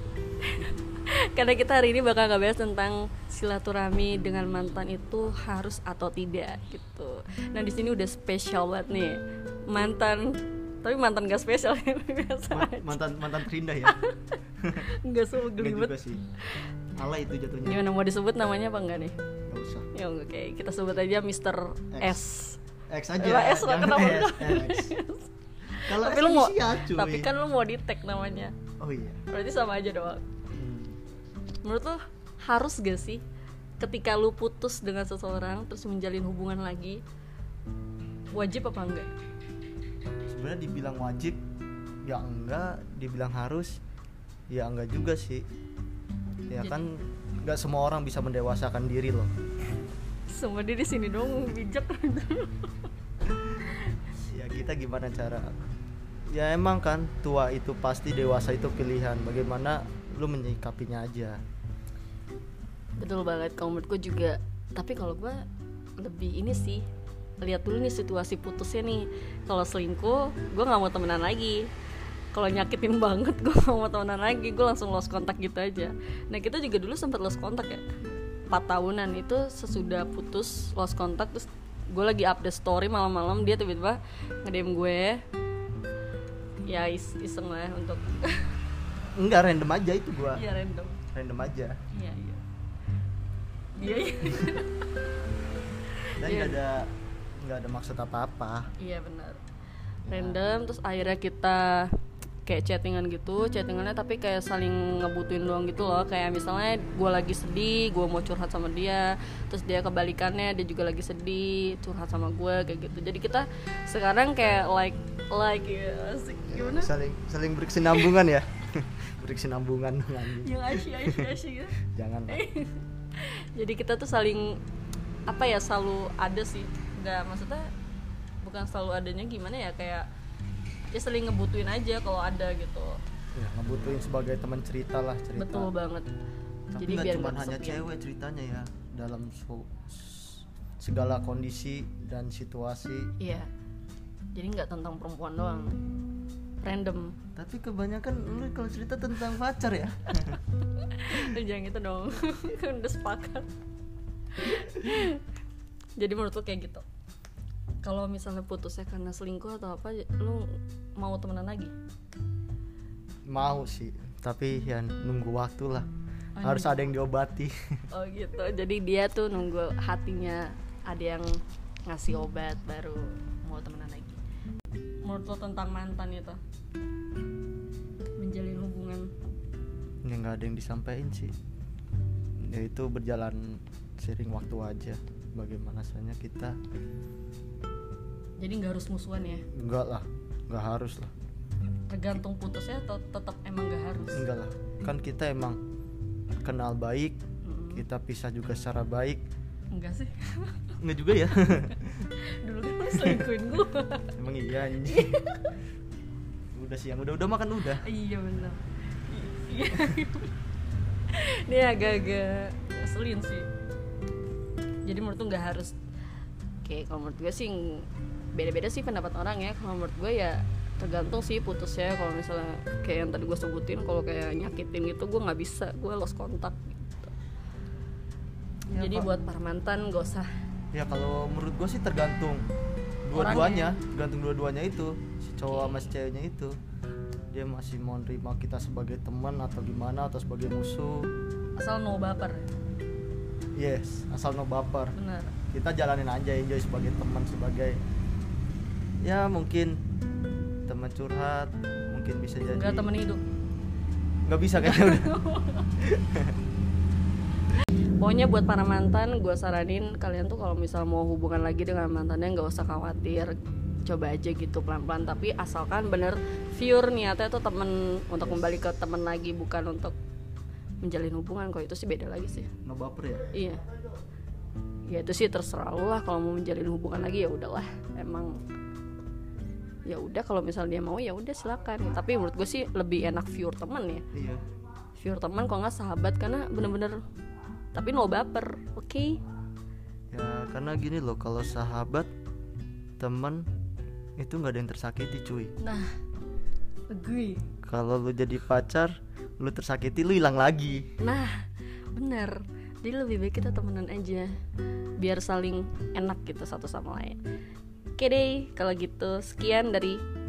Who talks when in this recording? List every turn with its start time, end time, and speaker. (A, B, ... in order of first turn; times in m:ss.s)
0:00.4-0:15.9 A
0:12.5-0:14.0 B
0:14.6-0:14.9 B
0:15.5-0:16.2 B
0:16.9-0:17.8 B
0:17.6-0:19.1 A
0:19.5-0:19.9 B
0:19.9-0:22.6 A
0:21.9-0:22.2 B
0:22.9-0:24.9 B
0:23.2-0:28.5 A
0:25.8-0:27.3 B
0:28.8-0:29.2 B
0:29.3-0:30.2 A
0:30.5-0:31.0 B
0:31.6-0:33.2 A
0:33.8-0:37.0 A
0:38.3-0:39.1 A
0:40.3-0:41.4 B
0:42.0-0:43.8 B
0:44.5-0:45.4 B
0:46.5-0:49.3 B
0:46.6-0:46.8 A
0:50.3-0:52.9 A
0:54.2-0:55.6 B
0:56.3-1:01.4 B
1:03.0-1:05.4 A
1:06.0-1:06.8 A
1:07.4-1:11.7 A
1:12.3-1:17.8 A
1:18.5-1:25.2 A
1:26.7-1:28.5 A
1:29.2-1:30.4 B
1:30.3-1:31.0 A
1:31.1-1:31.8 B
1:31.9-1:32.4 A
1:33.7-1:34.9 A
1:36.0-1:36.6 A
1:36.2-1:38.7 B
1:38.8-1:39.4 A
1:40.0-1:40.4 B
1:40.1-1:41.9 A
1:42.4-1:56.9 A
1:56.5-2:01.3 B
2:00.2-2:04.6 A
2:01.8-2:02.4 B
2:05.3-2:07.7 A
2:08.4-2:10.1 A
2:10.9-2:13.0 A
2:13.3-2:15.7 B
2:15.3-2:16.1 A
2:16.7-2:23.1 B
2:16.8-2:17.8 A
2:23.2-2:23.5 A
2:24.3-2:25.8 A
2:26.6-2:27.2 A
2:27.4-2:30.4 B
2:30.3-2:33.5 A
2:34.3-2:35.2 A
2:36.0-2:36.8 A
2:37.8-2:41.7 A
2:43.3-2:45.9 B
2:46.4-2:47.0 A
2:46.4-2:47.5 B
2:47.9-2:51.4 A
2:51.9-2:54.2 A
2:55.0-2:56.4 A
2:58.0-2:59.1 A
3:00.0-3:01.3 B
3:02.4-3:06.6 B
3:08.4-3:09.4 A
3:09.5-3:11.1 B
3:11.9-3:14.2 A
3:14.1-3:15.6 B
3:16.4-3:17.2 B
3:17.4-3:17.8 A
3:17.7-3:19.2 B
3:19.7-3:20.8 A
3:20.8-3:22.1 B
3:22.2-3:24.1 A
3:22.9-3:23.3 B
3:24.2-3:25.2 B
3:24.8-3:25.6 A
3:26.5-3:27.9 B
3:27.7-3:30.3 A
3:31.1-3:33.5 A
3:34.8-3:35.8 A
3:36.6-3:47.1 A
3:48.7-3:49.1 B
3:48.7-3:50.3 A
3:50.7-3:52.4 B
3:53.0-3:56.6 B
3:53.1-3:53.7 A
3:55.4-3:55.9 A
3:57.3-4:01.1 B
4:01.6-4:02.5 A
4:03.6-4:04.9 B
4:04.9-4:05.4 A
4:05.5-4:07.8 B
4:09.0-4:09.8 B
4:10.7-4:12.9 B
4:12.5-4:13.2 A
4:14.2-4:15.2 B
4:14.6-4:15.7 A
4:15.8-4:16.4 B
4:18.0-4:30.0 A
4:28.2-4:28.5 B
4:30.8-4:32.5 A
4:32.5-4:33.3 B
4:33.3-4:33.6 A
4:34.9-4:38.4 A
4:39.8-4:44.0 A
4:44.1-4:44.4 B
4:45.0-4:47.0 A
4:47.7-4:49.2 A
4:50.1-4:52.1 B
4:53.0-4:53.4 B
4:54.2-4:55.5 B
4:55.6-4:55.9 A
4:56.9-4:57.5 A
4:57.6-5:00.9 B
5:01.0-5:04.3 A
5:05.0-5:07.2 A
5:08.0-5:10.0 A